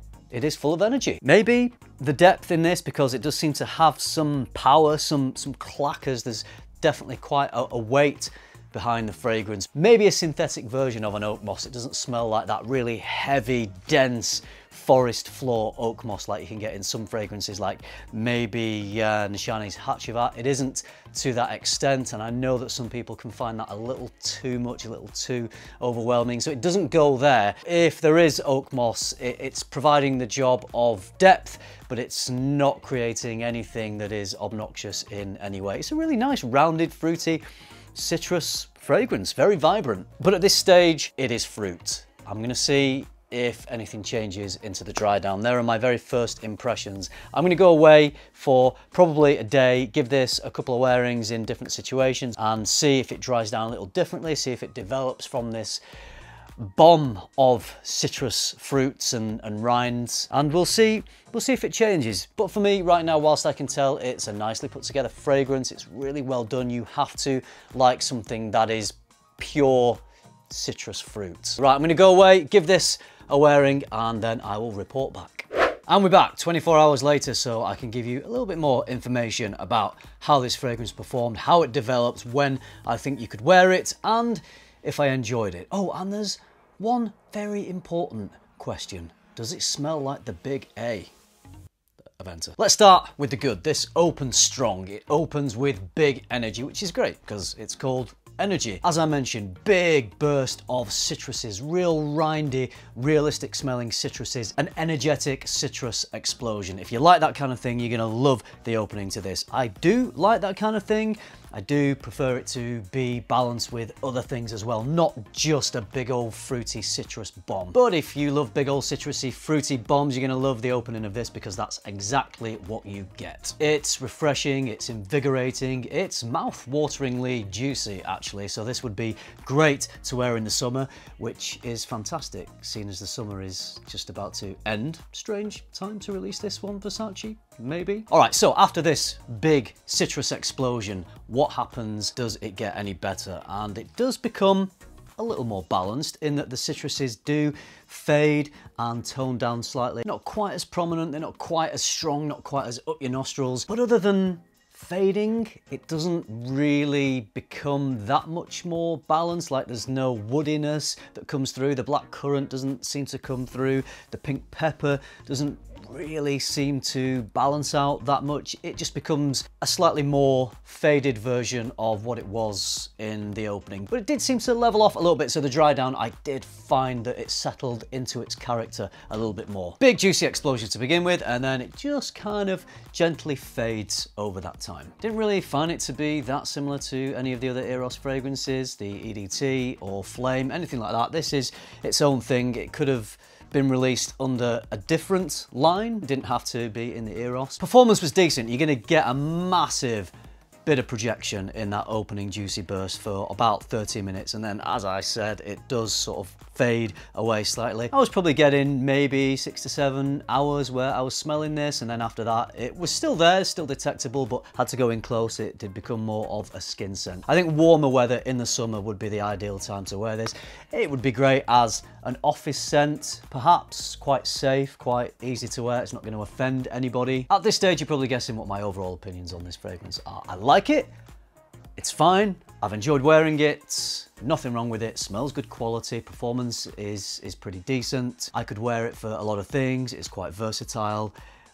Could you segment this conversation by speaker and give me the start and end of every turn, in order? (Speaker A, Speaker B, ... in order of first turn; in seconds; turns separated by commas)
Speaker A: 0.3-37.4, Speaker A: 37.9-55.8, Speaker A: 56.6-91.1, Speaker A: 92.2-200.1, Speaker A: 200.6-230.9, Speaker A: 231.8-241.1